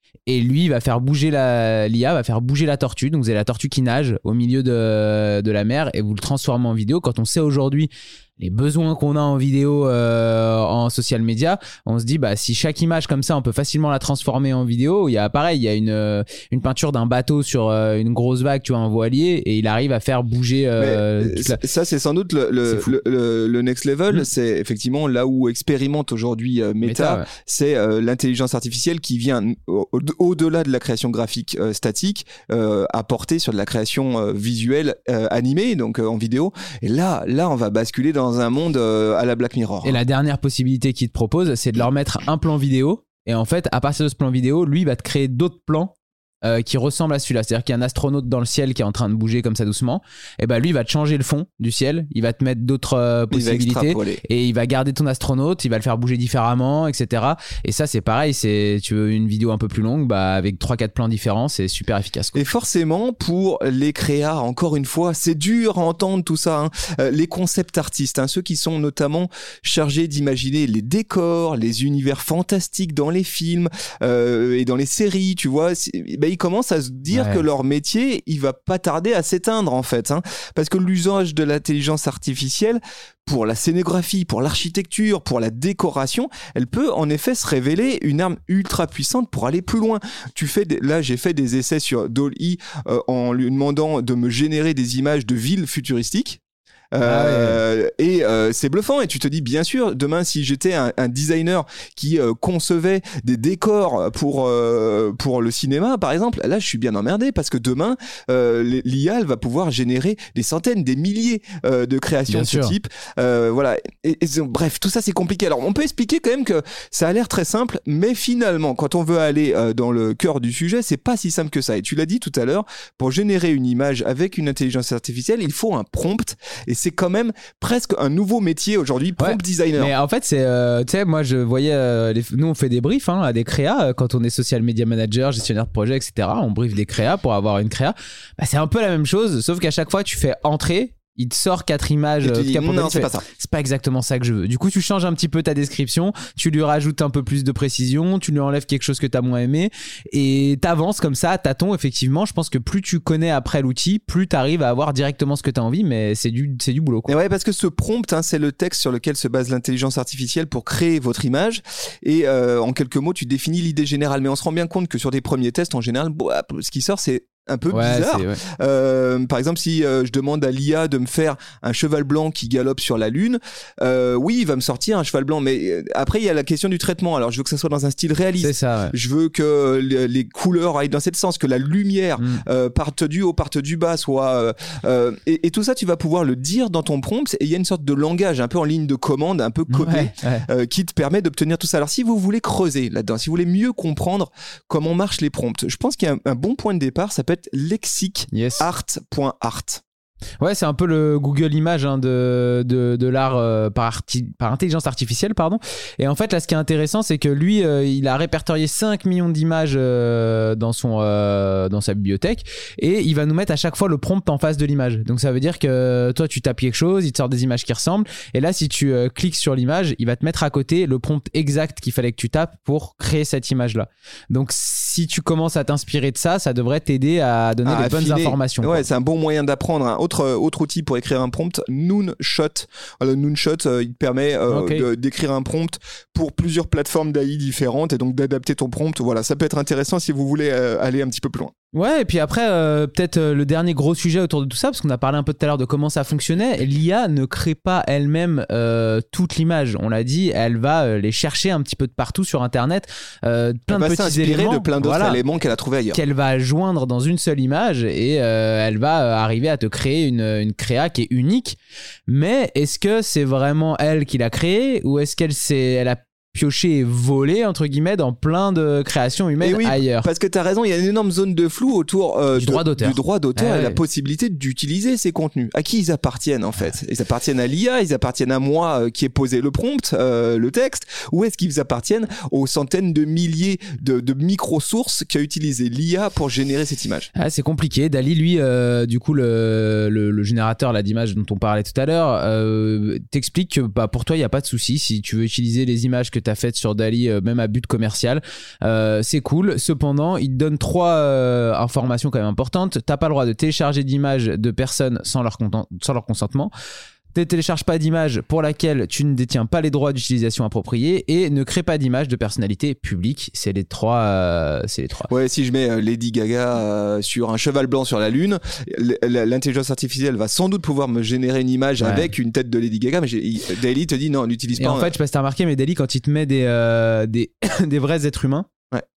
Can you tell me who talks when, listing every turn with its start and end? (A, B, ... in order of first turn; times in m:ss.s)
0:00.3-0:21.6 A
0:20.8-0:40.0 B
0:22.6-0:22.9 A
0:26.8-0:27.3 A
0:39.8-0:45.9 A
0:46.4-1:02.4 A
0:53.3-0:54.2 B
1:02.3-1:36.4 B
1:17.1-1:17.4 A
1:36.9-2:09.9 B
1:37.0-1:37.6 A
1:52.3-1:52.7 A
2:09.2-2:37.1 A
2:22.2-2:23.2 B
2:37.1-3:19.8 B
2:47.7-2:48.4 A
2:58.4-2:58.9 A
3:02.2-3:02.4 A
3:09.7-3:10.4 A
3:18.3-3:18.6 A
3:20.4-3:48.8 A
3:47.6-4:01.5 B
3:54.5-3:54.9 A
4:01.7-4:15.2 A
4:13.7-4:16.0 B
4:15.9-4:21.6 A
4:22.1-4:30.1 A
4:29.4-4:47.1 B
4:32.3-4:33.8 A
4:47.2-5:06.5 A
5:07.1-5:15.1 A
5:15.1-5:24.9 B
5:21.8-5:22.1 A
5:24.6-5:28.5 A